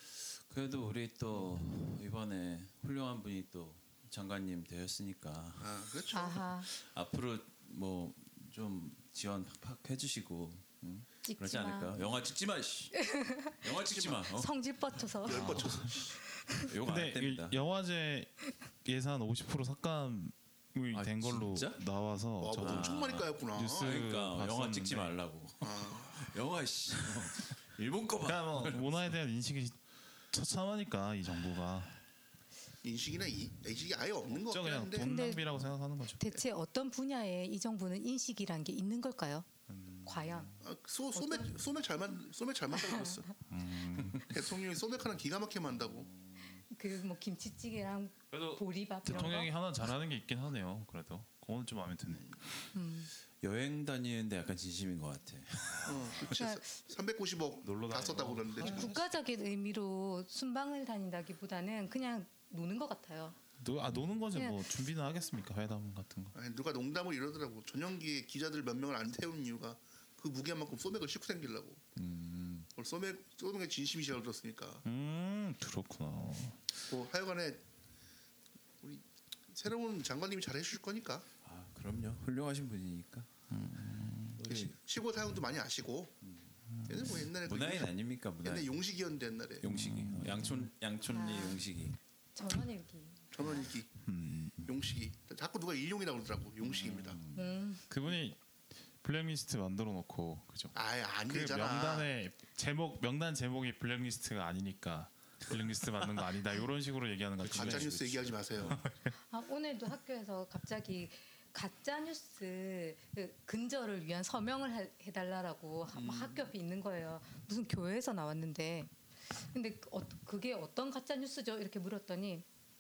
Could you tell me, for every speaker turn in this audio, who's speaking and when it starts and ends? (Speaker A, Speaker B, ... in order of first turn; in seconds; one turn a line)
Speaker A: 0.5-5.8
Speaker B: 5.6-6.5
Speaker C: 6.1-6.7
Speaker A: 6.6-13.0
Speaker C: 11.3-12.0
Speaker C: 12.9-13.7
Speaker A: 13.6-14.5
Speaker B: 13.9-14.2
Speaker C: 14.3-15.8
Speaker B: 15.2-16.1
Speaker A: 15.3-16.1
Speaker A: 16.6-17.6
Speaker D: 16.8-25.1
Speaker A: 20.9-21.8
Speaker B: 22.4-24.0
Speaker A: 22.6-29.1
Speaker B: 25.6-26.3
Speaker D: 28.2-29.8
Speaker D: 30.3-31.9
Speaker B: 32.8-35.1
Speaker D: 34.5-36.4
Speaker C: 35.0-35.7
Speaker C: 36.2-39.5
Speaker D: 39.7-40.6
Speaker C: 40.0-40.6
Speaker B: 40.6-43.3
Speaker C: 41.1-41.5
Speaker C: 42.7-43.3
Speaker D: 43.5-44.3
Speaker A: 44.0-44.2
Speaker B: 44.3-46.1
Speaker C: 46.7-49.5
Speaker D: 48.3-52.4
Speaker C: 52.7-53.1
Speaker A: 53.4-56.3
Speaker D: 55.7-56.2
Speaker B: 55.9-59.0
Speaker C: 56.3-56.8
Speaker D: 57.6-59.1
Speaker C: 58.6-63.4
Speaker D: 63.6-66.3
Speaker C: 64.3-64.7
Speaker B: 66.3-71.8
Speaker A: 72.0-72.7
Speaker B: 72.8-74.8
Speaker D: 74.8-76.6
Speaker B: 76.9-77.6
Speaker B: 78.8-81.3
Speaker A: 81.4-83.3
Speaker D: 83.5-84.4
Speaker A: 84.4-84.8
Speaker B: 84.5-86.1
Speaker A: 86.2-86.5
Speaker D: 86.8-87.1
Speaker B: 86.9-89.7
Speaker A: 87.4-88.8
Speaker A: 89.6-92.0
Speaker D: 89.6-90.7
Speaker C: 91.1-91.6
Speaker C: 92.3-93.6
Speaker B: 93.3-94.0
Speaker D: 94.0-94.7
Speaker B: 94.6-97.2
Speaker A: 96.8-97.5
Speaker C: 97.3-97.8
Speaker D: 97.9-98.4
Speaker D: 99.0-100.8
Speaker B: 100.7-102.1
Speaker D: 101.3-109.1
Speaker B: 107.4-108.8
Speaker A: 107.5-107.8
Speaker C: 109.3-122.5
Speaker B: 115.9-116.5